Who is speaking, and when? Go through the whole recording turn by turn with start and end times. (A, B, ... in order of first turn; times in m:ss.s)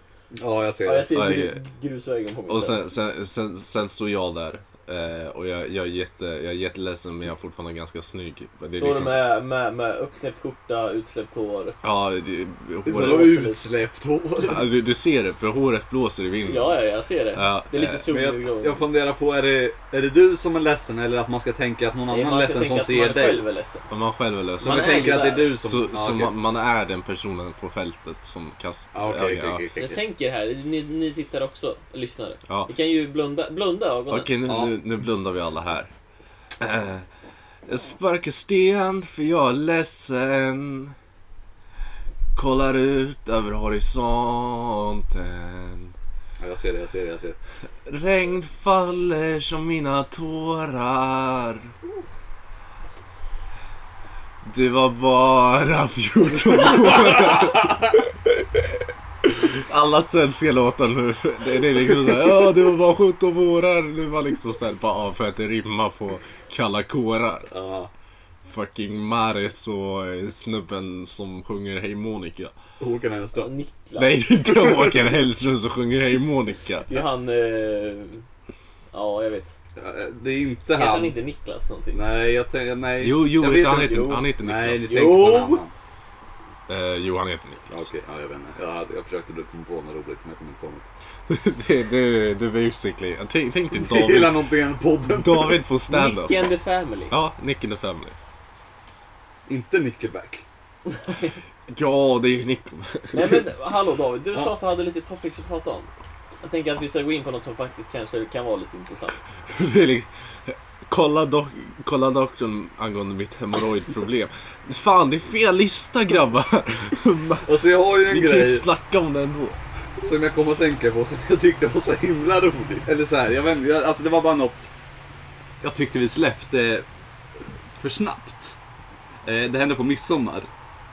0:00.3-0:01.2 A
0:00.8-0:02.9 B
0:01.1-0:01.6 C
0:02.5-0:09.3 C
0:08.8-0:11.8 B
0:11.8-0:13.3 C
0:12.9-0:14.7 A
0:12.9-0:13.7 B
0:14.4-0:16.8 C
0:16.4-0:18.8 B
0:17.3-0:18.1 C
0:18.1-0:23.4 A
0:22.1-0:23.9 B
0:23.9-0:29.6 C
0:24.6-0:25.5 B
0:24.6-0:26.4 A
0:28.9-0:30.0 A
0:29.8-0:34.3 B
0:34.1-0:35.9 C
0:34.5-0:34.8 A
0:36.6-0:37.1 C
0:37.7-0:41.0 C
0:42.4-0:45.9 C
0:46.4-0:47.4 A
0:47.9-0:51.7 C
0:54.4-1:07.5 C
1:07.5-1:07.9 A
1:08.5-1:12.5 C
1:12.8-1:13.5 A
1:13.4-1:14.9 B
1:14.0-1:16.9 C
1:16.9-1:18.2 B
1:18.9-1:19.5 B
1:19.8-1:21.2 A
1:20.7-1:22.0 B
1:21.9-1:25.7 A
1:23.0-1:25.1 C
1:23.7-1:24.3 B
1:24.9-1:25.6 B
1:26.7-1:27.9 C
1:27.7-1:30.9 A
1:31.3-1:34.4 C
1:33.7-1:35.6 A
1:35.1-1:36.4 C
1:35.9-1:37.2 B
1:37.1-1:38.2 C
1:39.5-1:40.4 A
1:41.0-1:41.3 B
1:41.7-1:43.5 C
1:43.1-1:45.9 B
1:46.4-1:49.2 B
1:49.5-1:59.6 C
1:57.5-1:58.7 A
2:00.0-2:04.7 A
2:05.6-2:06.9 A
2:07.4-2:08.6 A
2:09.2-2:10.5 A